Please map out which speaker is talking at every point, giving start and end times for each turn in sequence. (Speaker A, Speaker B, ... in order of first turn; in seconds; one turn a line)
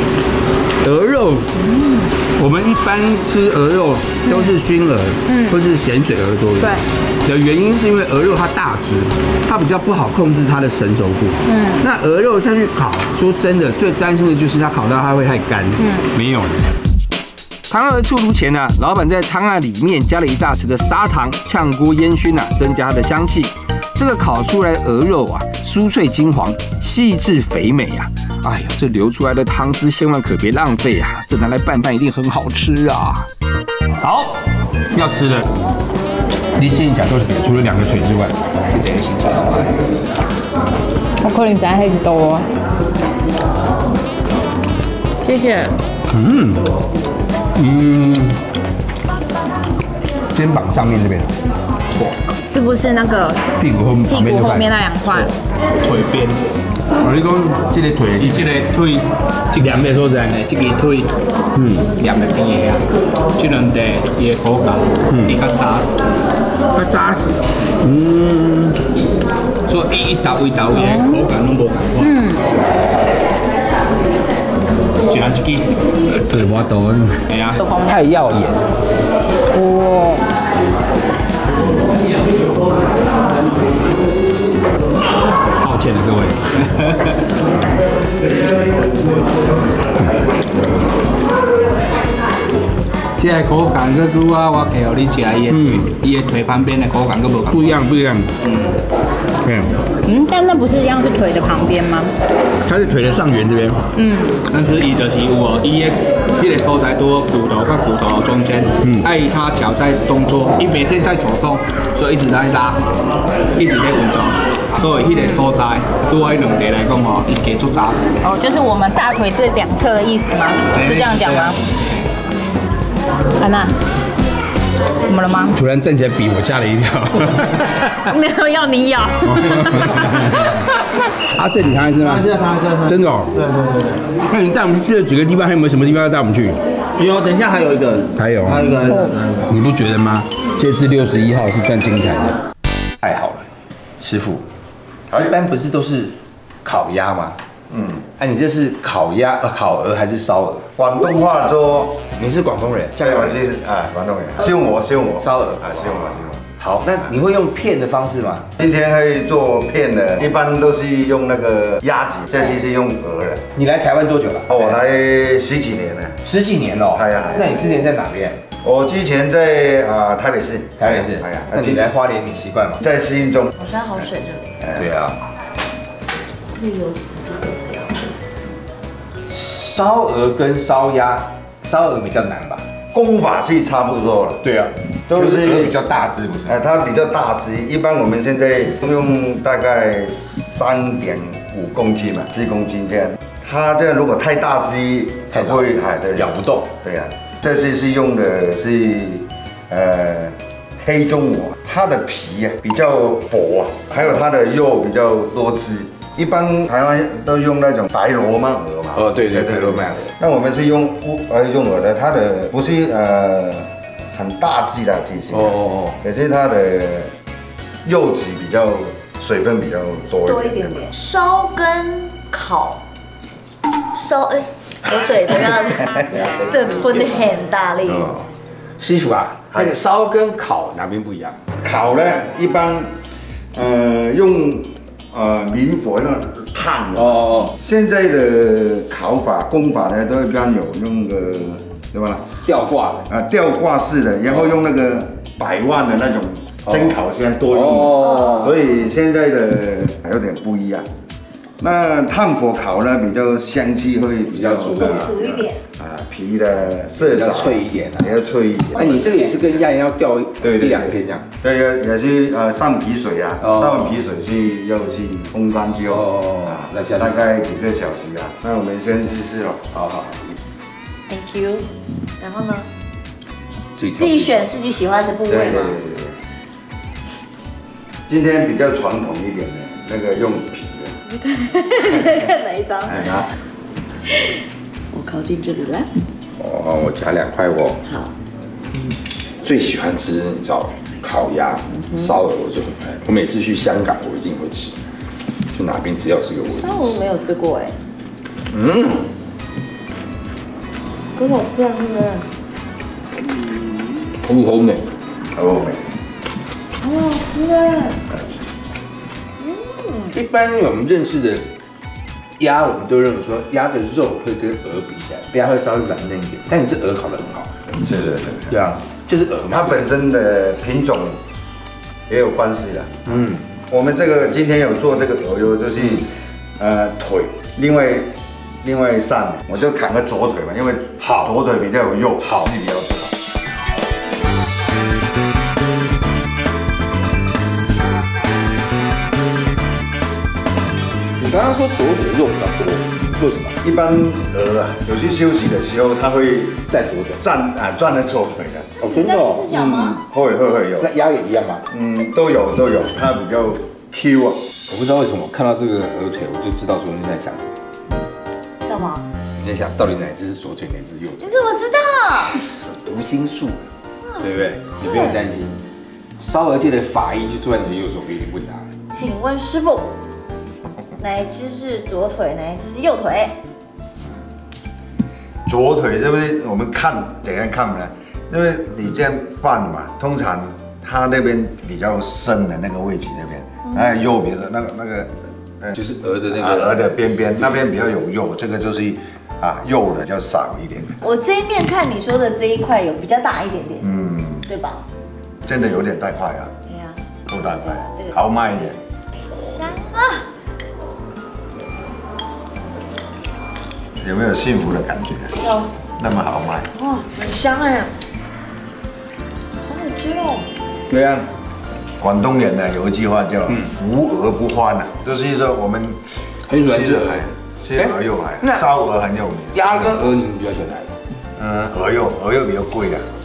Speaker A: 0.8-1.5
Speaker B: 1.6-2.1
Speaker A: 2.4-16.8
Speaker B: 4.3-4.5
Speaker B: 5.3-5.6
Speaker B: 11.4-11.9
Speaker B: 15.8-16.1
Speaker A: 17.7-33.3
Speaker A: 34.0-35.5
Speaker A: 36.6-38.4
Speaker C: 38.7-39.8
Speaker B: 41.2-42.5
Speaker B: 45.2-45.8
Speaker A: 46.1-46.7
Speaker A: 47.5-48.4
Speaker A: 50.3-51.4
Speaker B: 52.5-53.5
Speaker A: 53.6-55.3
Speaker B: 54.1-55.3
Speaker C: 55.8-56.4
Speaker A: 57.0-58.7
Speaker C: 58.2-61.2
Speaker A: 59.5-60.4
Speaker A: 61.5-61.9
Speaker C: 62.0-66.0
Speaker A: 65.1-65.4
Speaker A: 66.7-68.8
Speaker C: 69.7-72.2
Speaker B: 70.7-71.3
Speaker B: 72.0-72.4
Speaker C: 75.0-75.8
Speaker A: 76.3-77.3
Speaker C: 77.3-77.6
Speaker B: 77.6-78.1
Speaker A: 77.8-78.7
Speaker B: 79.5-80.3
Speaker A: 85.6-86.4
Speaker C: 86.6-87.3
Speaker C: 93.2-97.8
Speaker A: 95.5-95.9
Speaker A: 97.5-98.3
Speaker C: 98.4-98.8
Speaker A: 99.4-99.7
Speaker B: 100.0-102.1
Speaker A: 102.7-103.9
Speaker B: 104.0-104.4
Speaker C: 104.5-112.8
Speaker A: 108.8-109.1
Speaker C: 113.6-118.2
Speaker B: 115.0-115.4
Speaker B: 118.2-121.6
Speaker C: 120.7-121.6
Speaker B: 123.4-123.8
Speaker B: 125.0-125.6
Speaker A: 125.5-128.1
Speaker B: 128.1-130.8
Speaker A: 129.2-130.6
Speaker A: 131.2-133.5
Speaker A: 134.1-142.4
Speaker B: 138.8-139.2
Speaker A: 143.0-143.5
Speaker A: 144.0-144.4
Speaker D: 145.1-145.4
Speaker A: 145.1-147.4
Speaker D: 147.7-148.0
Speaker A: 148.2-150.7
Speaker D: 150.8-152.0
Speaker A: 152.2-153.4
Speaker D: 152.9-156.5
Speaker A: 155.2-155.9
Speaker A: 156.6-158.5
Speaker D: 158.6-163.4
Speaker A: 163.6-164.8
Speaker D: 164.5-166.2
Speaker A: 166.2-168.4
Speaker D: 166.9-167.7
Speaker D: 168.6-171.9
Speaker A: 170.8-172.8
Speaker D: 172.8-173.6
Speaker E: 173.6-174.6
Speaker D: 174.6-174.9
Speaker A: 174.7-175.2
Speaker E: 176.6-178.1
Speaker A: 179.3-182.7
Speaker D: 182.9-184.4
Speaker A: 184.4-186.6
Speaker D: 185.1-185.8
Speaker D: 186.5-217.1
Speaker A: 195.3-196.7
Speaker A: 208.9-210.1
Speaker A: 215.3-216.0
Speaker D: 217.8-220.9
Speaker E: 220.3-222.8
Speaker E: 223.9-228.2
Speaker A: 226.1-227.1
Speaker A: 227.9-228.2
Speaker A: 228.8-231.4
Speaker D: 229.5-229.8
Speaker D: 231.6-232.9
Speaker D: 233.5-242.3
Speaker A: 237.0-237.5
Speaker A: 242.4-243.1
Speaker D: 243.1-250.9
Speaker A: 247.5-248.5
Speaker E: 248.1-248.4
Speaker D: 251.6-259.4
Speaker A: 254.3-255.1
Speaker E: 254.7-255.6
Speaker A: 257.0-258.1
Speaker A: 258.7-261.3
Speaker E: 258.8-259.4
Speaker D: 260.4-269.7
Speaker A: 263.4-263.9
Speaker A: 265.9-267.2
Speaker A: 269.7-270.4
Speaker E: 271.1-272.7
Speaker A: 273.8-274.5
Speaker E: 273.9-275.8
Speaker D: 275.3-276.2
Speaker D: 278.1-280.9
Speaker E: 281.1-283.3
Speaker E: 284.1-286.1
Speaker A: 286.4-287.8
Speaker E: 287.8-288.1
Speaker A: 289.4-294.8
Speaker A: 295.5-297.0
Speaker E: 296.5-297.8
Speaker A: 298.5-299.1
Speaker E: 301.1-302.3
Speaker E: 303.4-304.0
Speaker A: 304.2-304.9
Speaker D: 305.3-305.8
Speaker E: 306.8-308.1
Speaker E: 309.4-310.1
Speaker A: 310.1-311.5
Speaker A: 312.4-317.6
Speaker D: 317.8-318.6
Speaker A: 318.5-319.9
Speaker D: 319.5-321.2
Speaker D: 322.1-333.1
Speaker A: 323.1-323.4
Speaker A: 331.0-331.3
Speaker A: 341.2-343.6
Speaker D: 343.6-346.6
Speaker A: 346.7-347.2
Speaker D: 347.2-348.8
Speaker A: 348.8-350.0
Speaker E: 348.8-350.0
Speaker D: 349.5-350.9
Speaker A: 350.8-351.7
Speaker D: 351.7-354.4
Speaker A: 354.7-357.5
Speaker E: 358.6-359.1
Speaker A: 359.4-361.4
Speaker E: 361.2-362.4
Speaker A: 362.2-363.6
Speaker A: 364.2-365.6
Speaker E: 364.9-365.2
Speaker A: 366.2-368.7
Speaker E: 368.9-369.9
Speaker E: 371.0-373.4
Speaker D: 375.5-385.8
Speaker A: 385.7-386.8
Speaker D: 386.3-391.0
Speaker E: 391.0-393.9
Speaker D: 393.8-394.4
Speaker E: 394.4-394.8
Speaker D: 395.5-396.5
Speaker E: 396.7-397.0
Speaker D: 397.3-398.8
Speaker E: 397.6-398.2
Speaker E: 399.3-400.3
Speaker D: 404.0-405.4
Speaker E: 405.4-405.7
Speaker D: 406.0-406.7
Speaker E: 406.8-407.9
Speaker E: 409.7-410.5
Speaker A: 410.9-411.3
Speaker D: 412.0-416.0
Speaker A: 416.5-418.6
Speaker D: 416.6-420.0
Speaker A: 419.5-420.9
Speaker D: 421.4-423.0